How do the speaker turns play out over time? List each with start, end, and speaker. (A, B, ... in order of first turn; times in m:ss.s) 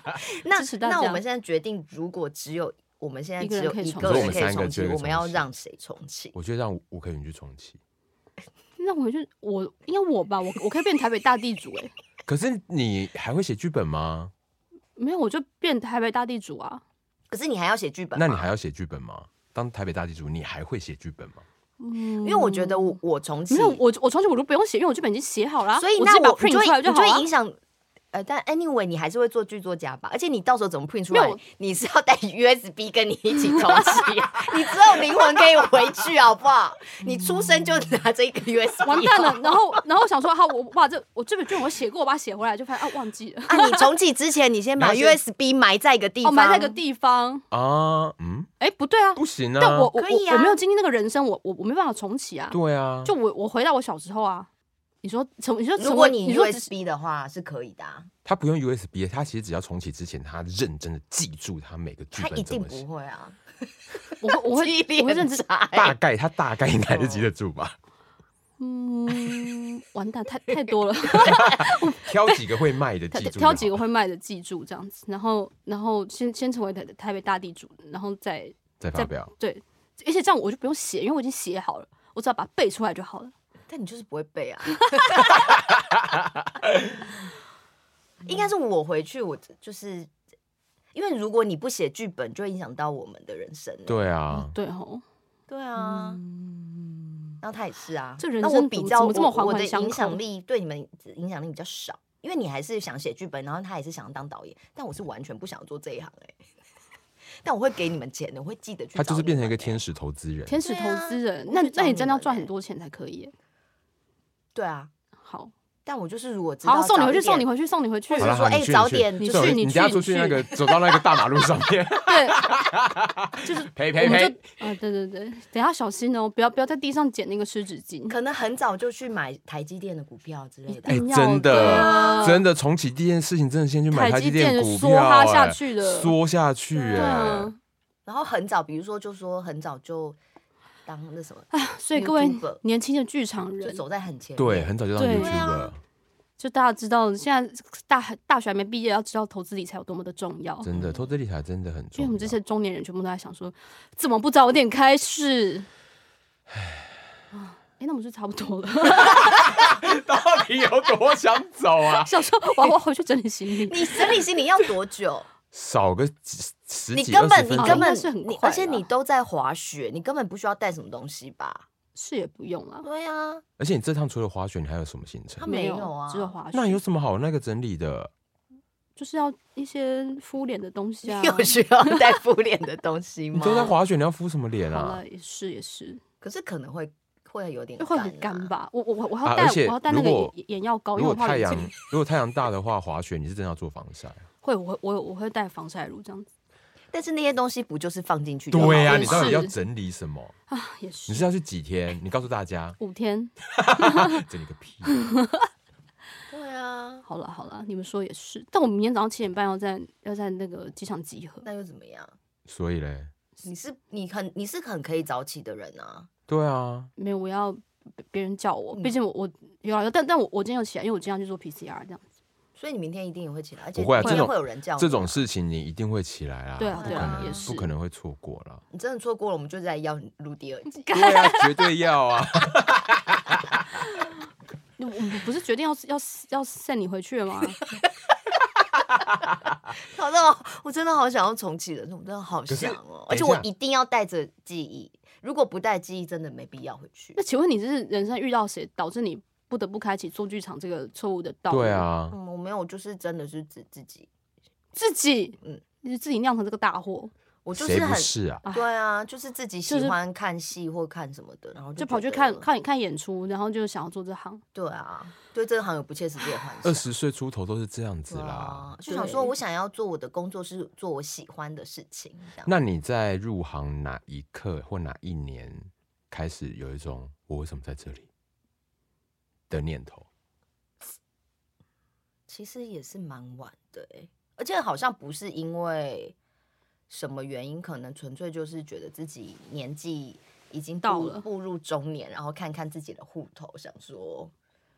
0:00.2-0:06.4 A
0:00.5-0:01.2 B
0:03.4-0:04.6 B
0:04.0-0:05.5 C
0:06.3-0:07.8 C
0:08.8-0:11.9 B
0:12.3-0:14.3 C
0:15.0-0:16.8 B
0:17.3-0:18.5 A
0:18.2-0:21.4 C
0:21.8-0:23.0 B
0:22.2-0:23.8 A
0:23.5-0:27.3 B
0:25.8-0:27.6 A
0:28.1-0:39.8 A
0:31.1-0:31.4 B
0:33.4-0:34.1 B
0:38.8-0:43.9 B
0:43.5-0:46.8 A
0:44.8-0:45.2 C
0:46.2-0:47.4 B
0:47.5-0:48.5 C
0:48.6-0:54.5 B
0:49.2-0:49.9 C
0:50.0-0:50.6 A
0:52.5-0:53.1 C
0:55.0-0:56.7 B
0:55.8-0:58.1 A
0:58.2-1:02.8 C
1:02.1-1:06.0 A
1:04.2-1:05.4 B
1:05.7-1:07.7 C
1:06.9-1:07.3 A
1:08.6-1:12.4 B
1:11.2-1:11.6 A
1:11.3-1:13.8 C
1:13.1-1:23.3 B
1:18.8-1:19.3 C
1:23.7-1:25.8 A
1:28.2-1:30.1 A
1:30.9-1:34.0 A
1:33.9-1:34.5 C
1:34.3-1:35.0 B
1:35.5-1:36.2 A
1:35.8-1:37.3 B
1:37.4-1:46.4 A
1:38.2-1:40.2 B
1:47.4-1:49.8 A
1:49.0-1:50.6 C
1:50.5-1:53.3 B
1:50.6-1:52.5 A
1:54.6-1:54.9 A
1:55.2-1:55.5 B
1:55.9-1:57.5 A
1:56.6-1:58.4 B
1:58.1-1:59.7 A
1:58.2-2:04.4 C
1:59.2-2:00.8 B
2:02.1-2:02.4 B
2:03.4-2:08.2 B
2:08.1-2:12.4 A
2:10.7-2:12.4 B
2:10.9-2:17.5 C
2:13.9-2:16.2 B
2:16.8-2:17.4 A
2:16.9-2:17.6 B
2:18.1-2:20.2 A
2:20.9-2:22.6 A
2:21.5-2:23.8 B
2:23.6-2:25.7 A
2:24.4-2:25.8 C
2:25.0-2:25.4 B
2:26.4-2:30.7 B
2:30.6-2:32.4 C
2:30.8-2:31.1 A
2:32.0-2:35.7 B
2:36.5-2:36.9 C
2:37.3-2:39.6 B
2:39.0-2:42.2 C
2:42.0-2:44.2 B
2:43.7-2:45.3 A
2:45.5-2:47.9 C
2:46.9-2:51.7 A
2:47.6-2:48.9 B
2:52.0-2:52.9 B
2:52.8-2:53.4 A
2:53.6-2:55.5 C
2:55.4-2:56.4 A
2:55.4-2:56.8 B
2:56.5-2:58.1 C
2:59.0-3:02.0 B
3:01.0-3:03.8 A
3:03.3-3:05.0 C
3:04.7-3:06.0 B
3:06.2-3:08.5 A
3:07.8-3:11.7 B
3:09.2-3:10.3 C
3:11.0-3:14.3 C
3:14.4-3:16.3 B
3:16.9-3:19.4 A
3:18.5-3:20.4 C
3:18.6-3:19.6 B
3:20.5-3:21.2 B
3:21.1-3:22.8 C
3:22.8-3:24.2 B
3:23.5-3:25.1 C
3:24.9-3:25.5 B
3:26.3-3:27.0 A
3:27.0-3:31.5 B
3:31.4-3:32.2 A
3:32.5-3:33.1 C
3:33.4-3:36.1 A
3:36.3-3:36.9 C
3:37.0-3:42.0 B
3:42.6-3:45.2 A
3:43.8-3:48.6 C
3:44.0-3:44.3 B
3:46.6-3:47.7 B
3:46.8-3:47.5 A
3:48.7-3:50.9 A
3:50.7-3:51.7 B
3:50.9-3:53.6 C
3:54.8-3:57.6 B
3:59.7-4:07.2 A
4:02.5-4:03.5 C
4:07.2-4:11.9 B
4:11.5-4:12.2 C
4:12.1-4:14.1 A
4:14.8-4:17.1 B
4:17.4-4:22.5 A
4:17.6-4:18.4 C
4:19.7-4:20.0 B
4:21.8-4:24.4 B
4:24.6-4:26.9 A
4:26.6-4:28.7 C
4:28.1-4:32.5 A
4:28.9-4:29.3 B
4:32.4-4:38.1 C
4:39.5-4:40.1 C
4:42.3-4:46.2 A
4:46.9-4:54.3 A
4:50.8-4:51.3 B